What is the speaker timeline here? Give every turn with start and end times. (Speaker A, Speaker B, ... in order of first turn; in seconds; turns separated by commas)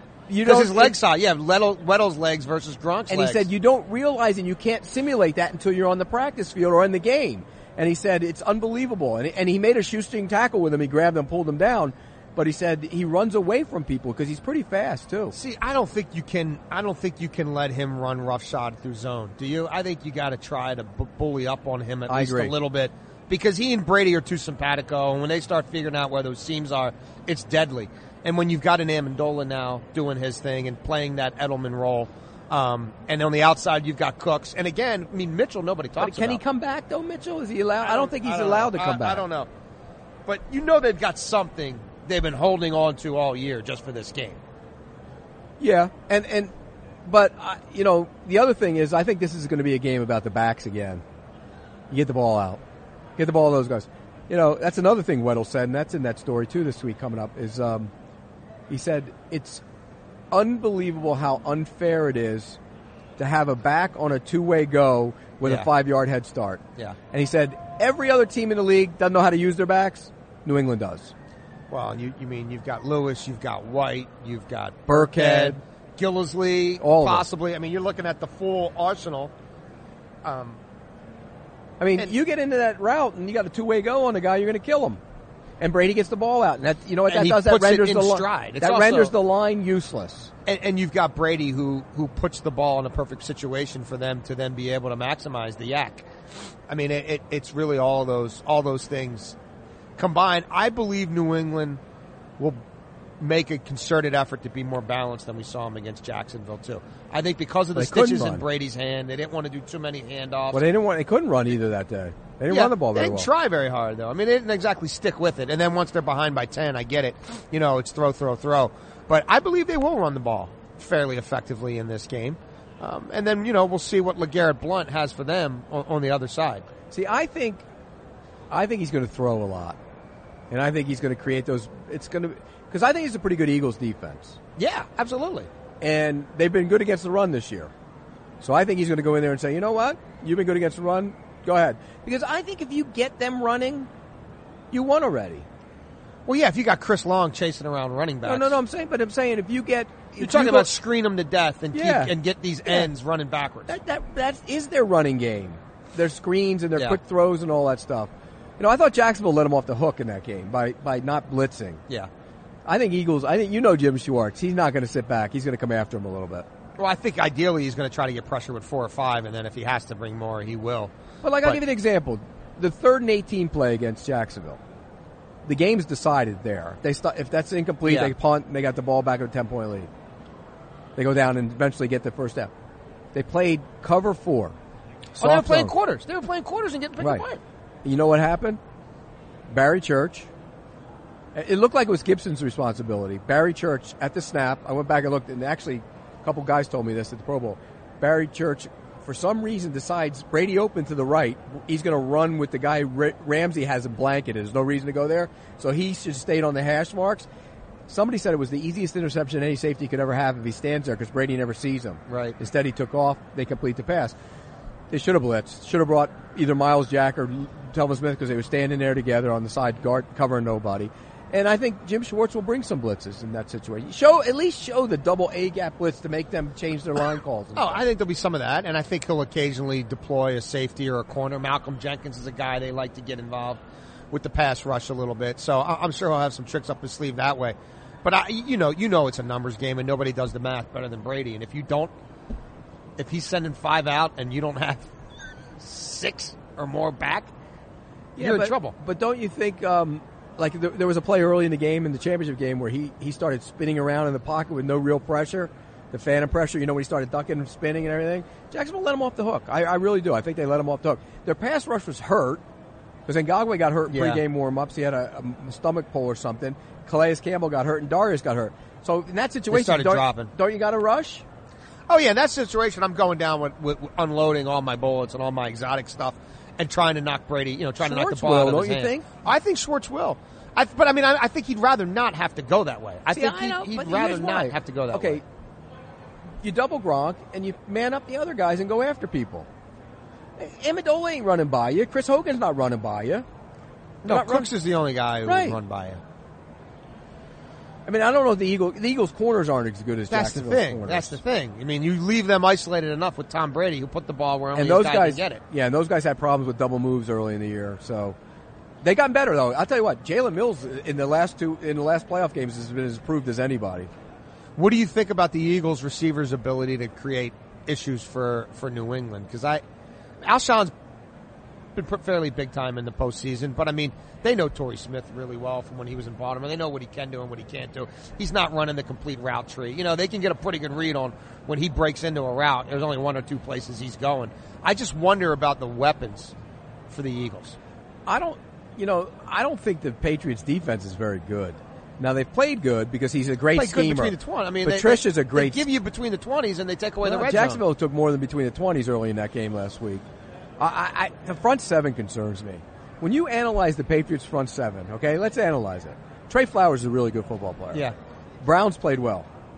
Speaker A: 0.3-1.0, Speaker B: 0.4-3.5, Speaker A: 3.1-15.3, Speaker B: 15.3-36.4, Speaker A: 22.1-22.5, Speaker A: 36.0-39.2, Speaker B: 37.8-39.5, Speaker B: 40.3-44.4, Speaker A: 45.6-46.5, Speaker A: 47.0-51.0, Speaker A: 51.9-52.6, Speaker A: 53.2-57.9, Speaker A: 58.7-59.6, Speaker A: 60.3-62.6, Speaker A: 63.2-71.1, Speaker B: 65.4-65.7, Speaker B: 71.7-79.3, Speaker A: 74.9-75.6, Speaker A: 76.8-77.3, Speaker B: 80.2-80.6, Speaker A: 81.8-85.0, Speaker A: 85.6-90.3, Speaker B: 87.1-89.1, Speaker B: 90.5-96.1, Speaker B: 96.7-99.3, Speaker B: 100.0-101.8, Speaker B: 103.2-110.6, Speaker A: 107.7-108.5, Speaker A: 110.5-113.3, Speaker B: 112.5-126.7, Speaker A: 126.9-127.6, Speaker A: 128.5-129.8, Speaker A: 130.5-134.4, Speaker B: 134.6-135.5, Speaker A: 135.8-137.7, Speaker A: 138.4-143.9, Speaker A: 144.7-145.4, Speaker B: 146.3-148.6, Speaker A: 148.2-150.7, Speaker B: 150.1-153.8, Speaker A: 151.7-152.1, Speaker A: 152.7-152.9, Speaker A: 153.7-161.8, Speaker A: 162.7-166.4, Speaker B: 166.8-170.9, Speaker A: 171.2-174.6, Speaker A: 175.4-179.9, Speaker B: 177.8-178.1, Speaker A: 180.9-182.5, Speaker A: 183.1-184.6, Speaker A: 185.2-185.7, Speaker B: 185.2-187.4, Speaker A: 187.0-187.2, Speaker A: 187.8-188.6, Speaker A: 189.5-190.3, Speaker A: 191.3-207.3, Speaker A: 207.9-214.2, Speaker B: 212.1-212.4, Speaker A: 214.9-227.8, Speaker B: 227.5-233.6, Speaker B: 234.1-241.9, Speaker B: 243.0-244.9, Speaker B: 245.6-247.3, Speaker A: 248.2-262.4, Speaker B: 248.2-248.7, Speaker A: 263.1-271.2, Speaker B: 263.9-264.2, Speaker B: 269.5-270.3, Speaker B: 271.9-285.2, Speaker A: 277.8-279.1, Speaker A: 283.1-285.2, Speaker A: 286.4-289.5, Speaker A: 290.4-293.2, Speaker B: 294.0-296.0, Speaker A: 294.1-294.5, Speaker A: 295.2-295.6, Speaker A: 297.9-301.2, Speaker B: 300.1-305.4, Speaker A: 304.5-308.1, Speaker A: 308.8-313.9, Speaker B: 314.6-319.6, Speaker B: 320.2-320.7, Speaker B: 321.7-336.3, Speaker B: 336.9-337.6, Speaker A: 338.1-345.6, Speaker B: 343.5-347.6, Speaker A: 347.0-350.0, Speaker A: 350.6-357.9, Speaker A: 358.4-359.3